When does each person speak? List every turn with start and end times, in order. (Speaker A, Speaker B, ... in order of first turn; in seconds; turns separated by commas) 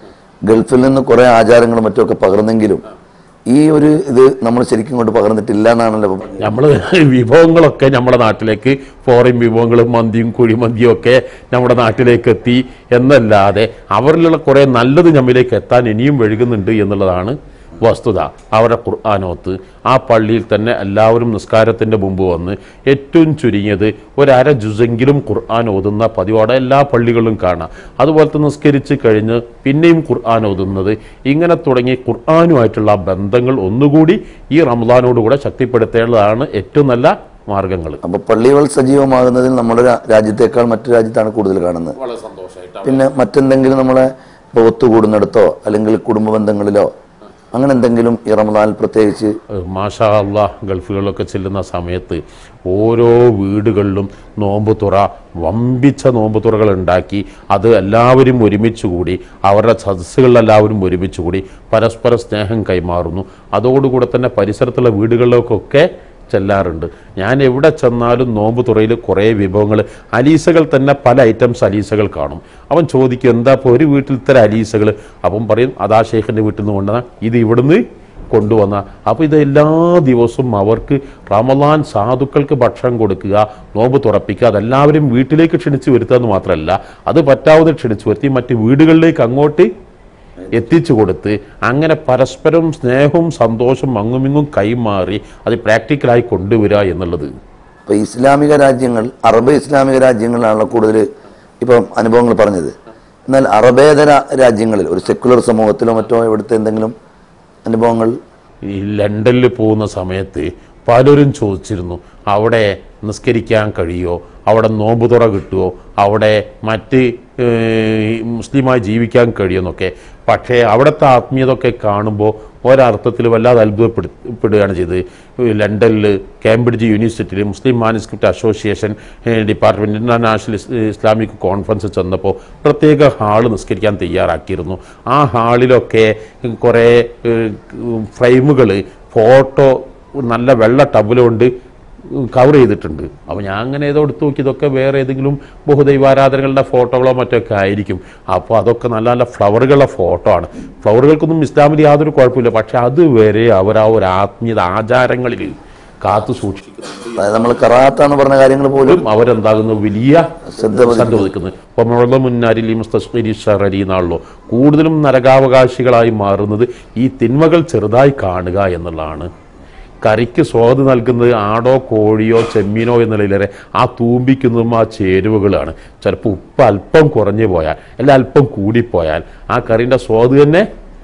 Speaker A: 0.5-2.8, Speaker A: 3.5-6.5, Speaker B: 6.4-38.0, Speaker A: 38.0-42.0, Speaker B: 42.0-43.0, Speaker A: 42.8-46.9, Speaker A: 47.5-49.3, Speaker B: 49.6-89.7, Speaker B: 90.5-97.3, Speaker A: 97.9-101.0, Speaker A: 101.6-102.7, Speaker A: 103.3-106.9, Speaker A: 107.7-108.2, Speaker B: 108.7-141.5, Speaker B: 142.1-157.8, Speaker A: 157.2-159.0, Speaker B: 158.9-169.3, Speaker A: 160.5-161.3, Speaker B: 170.0-180.7